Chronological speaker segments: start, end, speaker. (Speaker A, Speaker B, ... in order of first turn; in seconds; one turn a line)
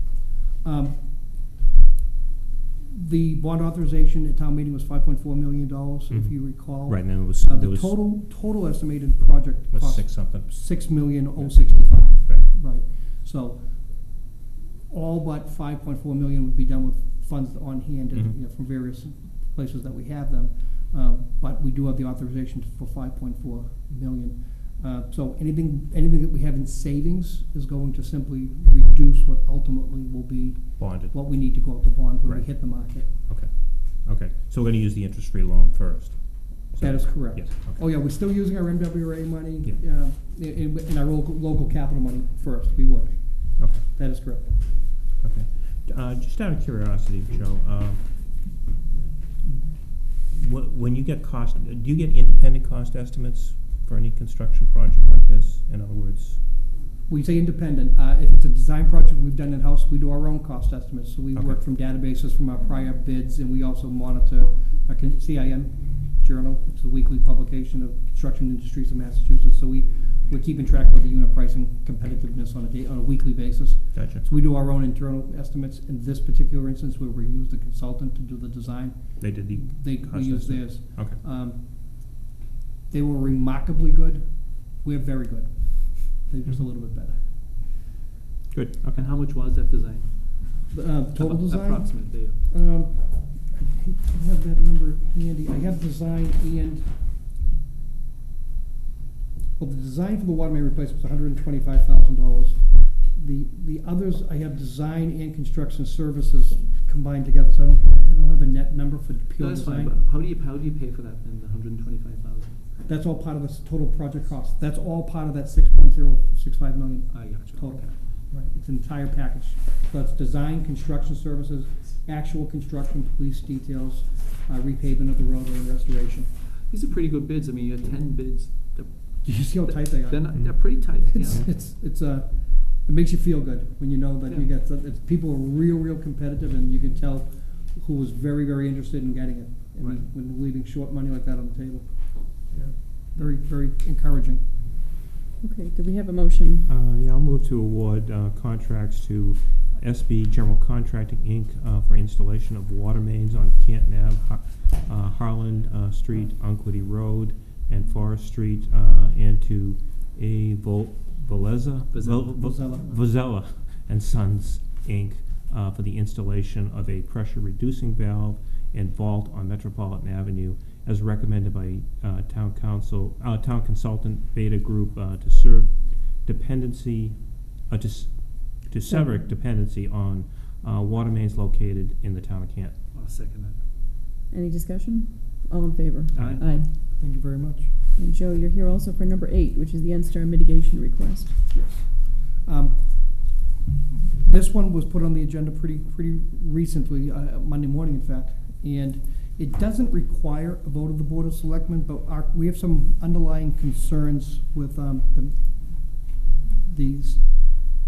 Speaker A: 0.6-1.0
Speaker A: 2.9-14.2
Speaker B: 6.1-8.0
Speaker B: 9.7-12.5
Speaker A: 14.9-33.1
Speaker B: 30.8-31.7
Speaker B: 32.2-37.8
Speaker A: 36.8-44.5
Speaker B: 43.6-43.8
Speaker B: 45.2-48.1
Speaker B: 50.3-56.4
Speaker A: 57.1-81.6
Speaker B: 73.9-74.2
Speaker B: 79.2-81.2
Speaker A: 82.9-87.2
Speaker B: 88.5-89.1
Speaker C: 88.9-92.4
Speaker A: 90.7-96.9
Speaker A: 99.6-110.0
Speaker C: 109.4-112.7
Speaker A: 112.9-126.3
Speaker C: 117.1-118.0
Speaker C: 126.7-131.6
Speaker A: 129.2-144.4
Speaker B: 130.3-131.5
Speaker D: 145.4-146.7
Speaker B: 146.7-182.8
Speaker C: 161.9-162.4
Speaker A: 162.3-162.9
Speaker C: 182.9-183.6
Speaker D: 184.3-186.7
Speaker B: 186.2-186.4
Speaker A: 186.9-187.7
Speaker D: 188.0-191.3
Speaker A: 191.5-192.9
Speaker A: 194.2-205.4
Speaker A: 206.6-207.2